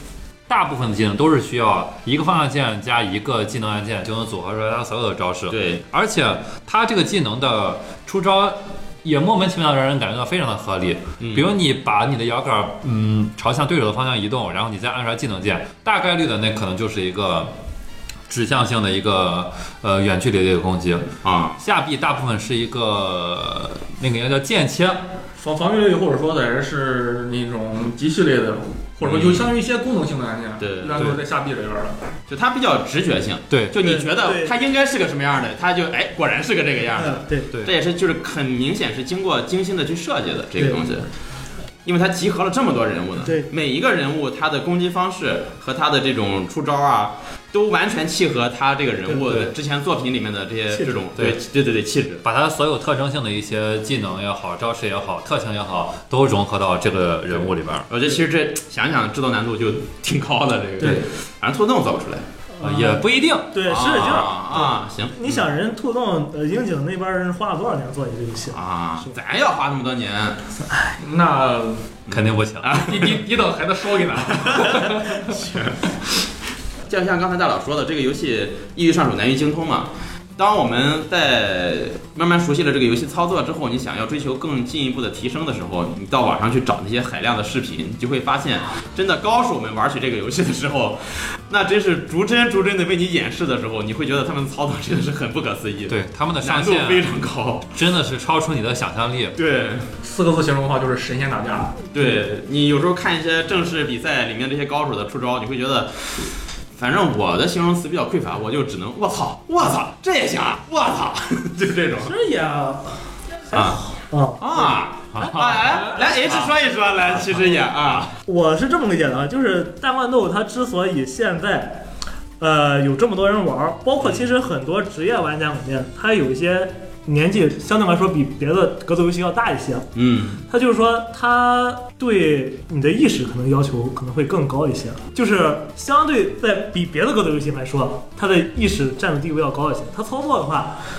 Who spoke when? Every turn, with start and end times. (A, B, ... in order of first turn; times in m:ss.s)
0:00.5-0:17.5 A
0:05.5-0:05.8 B
0:11.2-0:11.5 B
0:18.3-0:25.0 A
0:21.2-0:21.6 B
0:25.4-0:31.9 C
0:29.0-0:29.5 B
0:30.6-0:31.1 B
0:32.3-0:41.1 B
0:33.5-0:33.8 A
0:33.8-0:34.5 D
0:37.0-0:37.5 D
0:41.8-0:52.2 B
0:43.2-0:43.5 D
0:50.7-0:51.0 D
0:52.2-0:57.9 A
0:57.9-1:02.2 B
1:00.8-1:01.0 D
1:02.5-1:09.2 D
1:02.6-1:03.5 A
1:03.6-1:05.4 B
1:08.5-1:10.4 B
1:11.0-1:12.0 C
1:12.1-1:13.2 B
1:12.1-1:12.8 A
1:12.7-1:15.4 C
1:14.3-1:16.0 B
1:16.9-1:37.7 B
1:35.9-1:37.1 A
1:37.7-1:39.4 A
1:39.4-1:39.9 B
1:40.0-1:41.8 C
1:41.9-1:52.1 B
1:52.0-1:52.9 D
1:53.5-1:54.8 D
1:53.5-1:53.8 B
1:54.4-1:58.1 B
1:55.1-1:55.6 A
1:55.7-1:56.5 C
1:58.2-2:01.8 D
2:02.4-2:09.9 D
2:04.0-2:04.3 B
2:09.9-2:10.4 B
2:10.5-2:20.8 D